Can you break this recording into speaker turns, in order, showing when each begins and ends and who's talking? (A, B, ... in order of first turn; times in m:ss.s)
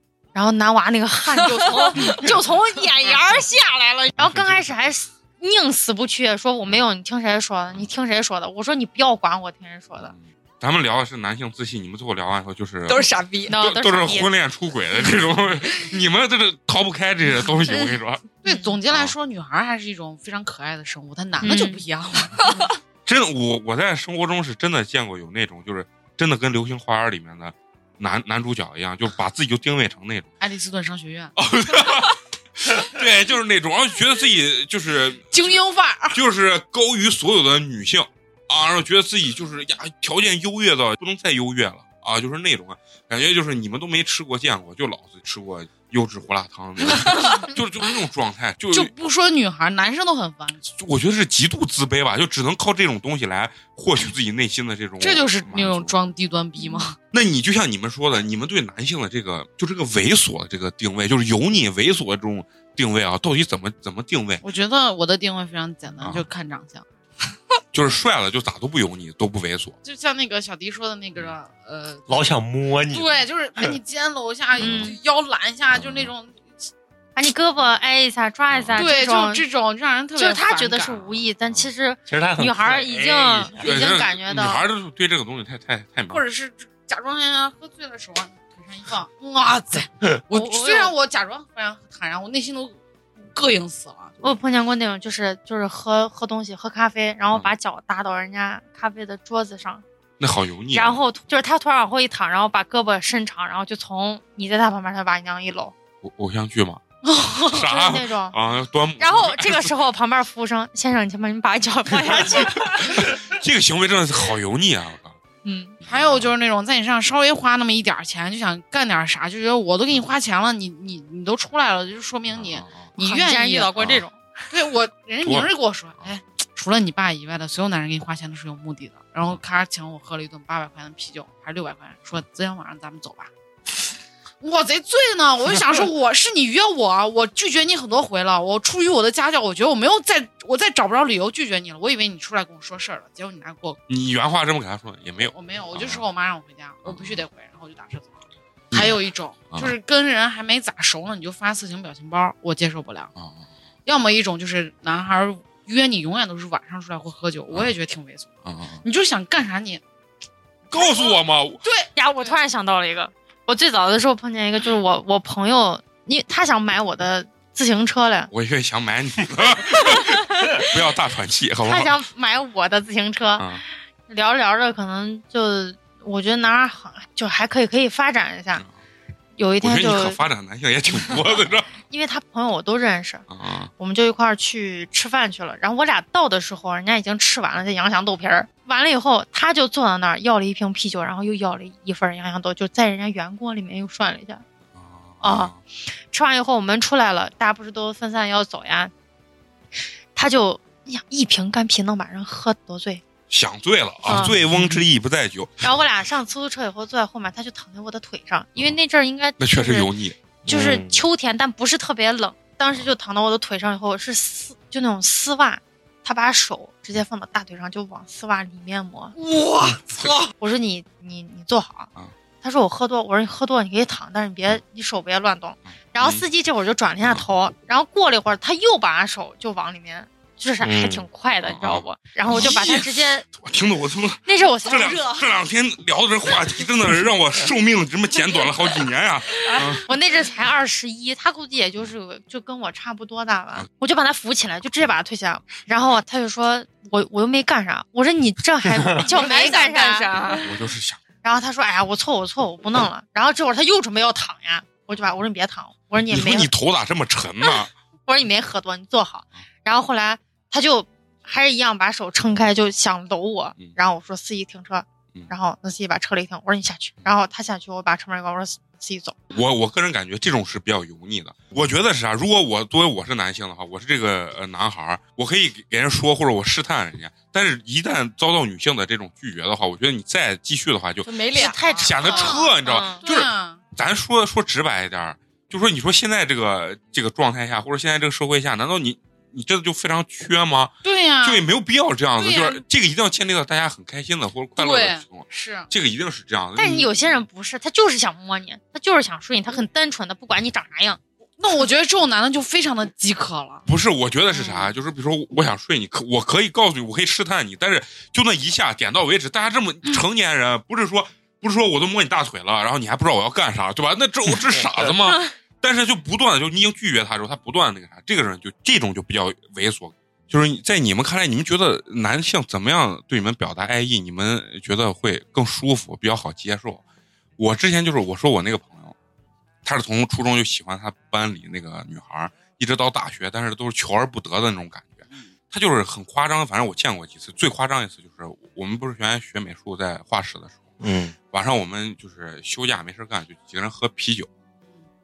0:00.3-0:10.1 A
0:01.4-0:02.2 B
0:04.2-0:04.8 C
0:10.0-0:18.2 C
0:12.9-0:13.6 B
0:13.5-0:14.3 A
0:18.4-0:22.4 D
0:18.4-0:18.7 A
0:21.4-0:21.8 A
0:22.4-0:22.6 B
0:23.0-0:30.3 C
0:30.4-0:31.4 D
0:31.4-0:48.9 C
0:35.3-0:36.2 D
0:47.0-0:47.4 D
0:48.7-0:50.7 D
0:50.8-0:55.9 C
0:55.0-0:57.0 D
0:56.6-0:56.8 A
0:57.1-1:04.4 C
1:04.4-1:06.8 D
1:06.0-1:06.2 C
1:07.7-1:09.8 C
1:09.8-1:12.4 D
1:12.1-1:13.8 E
1:12.9-1:16.6 D
1:14.6-1:15.0 A
1:14.6-1:14.9 C
1:15.7-1:16.1 C
1:17.2-1:19.4 A
1:18.5-1:18.8 C
1:18.8-1:21.2 D
1:20.2-1:24.6 A
1:22.1-1:23.6 E
1:23.5-1:26.2 C
1:26.1-1:32.8 D
1:30.3-1:30.9 A
1:33.3-1:34.2 D
1:34.2-1:39.8 A
1:40.2-1:41.0 C
1:40.7-1:45.7 A
1:46.0-1:46.8 C
1:47.0-1:48.4 A
1:47.4-1:49.7 C
1:49.0-1:53.0 A
1:52.2-1:55.2 C
1:55.4-1:55.8 A
1:55.8-1:56.3 C
1:55.9-2:03.7 D
2:02.3-2:02.9 C
2:03.0-2:04.2 A
2:03.8-2:04.0 C
2:04.5-2:13.3 D
2:14.4-2:23.8 D
2:23.9-2:26.0 C
2:25.3-2:33.1 D
2:26.8-2:27.2 C
2:28.7-2:29.0 C
2:33.8-2:38.3 D
2:38.4-2:38.8 C
2:38.8-2:39.8 D
2:40.7-2:41.6 C
2:40.7-2:42.4 D
2:41.9-2:48.3 A
2:48.3-2:51.9 C
2:49.9-2:50.7 A
2:51.6-2:53.6 A
2:53.4-2:53.6 C
2:54.1-2:58.6 A
2:59.4-3:00.2 A
2:59.6-3:01.7 C
3:01.8-3:03.2 A
3:03.3-3:03.7 C
3:03.8-3:14.4 A
3:14.7-3:15.6 C
3:15.2-3:15.5 A
3:16.1-3:18.9 A
3:20.1-3:23.0 A
3:23.3-3:25.6 C
3:24.0-3:24.4 A
3:25.6-3:29.9 A
3:29.4-3:30.2 C
3:30.4-3:39.1 A
3:30.4-3:31.0 E
3:39.2-3:40.3 B
3:40.4-3:41.9 A
3:42.4-3:53.2 A
3:45.9-3:46.2 C
3:50.6-3:51.1 E
3:51.4-3:59.8 C
3:54.2-3:55.1 A
3:59.8-4:10.2 A
4:09.0-4:10.5 B
4:10.4-4:11.0 C
4:11.2-4:16.5 A
4:16.1-4:17.7 C
4:17.4-4:29.2 A
4:29.3-4:41.1 C
4:41.0-4:41.8 B
4:41.3-4:43.0 A
4:41.8-4:57.2 C
4:42.0-4:43.6 D
4:50.8-4:51.4 D
4:52.2-4:52.6 D
4:54.6-4:55.7 D
4:56.6-5:01.0 A
5:01.4-5:03.6 D
5:03.6-5:26.8 C
5:27.4-5:28.9 C
5:29.6-5:40.8 C
5:40.8-5:41.1 E
5:41.3-5:44.3 C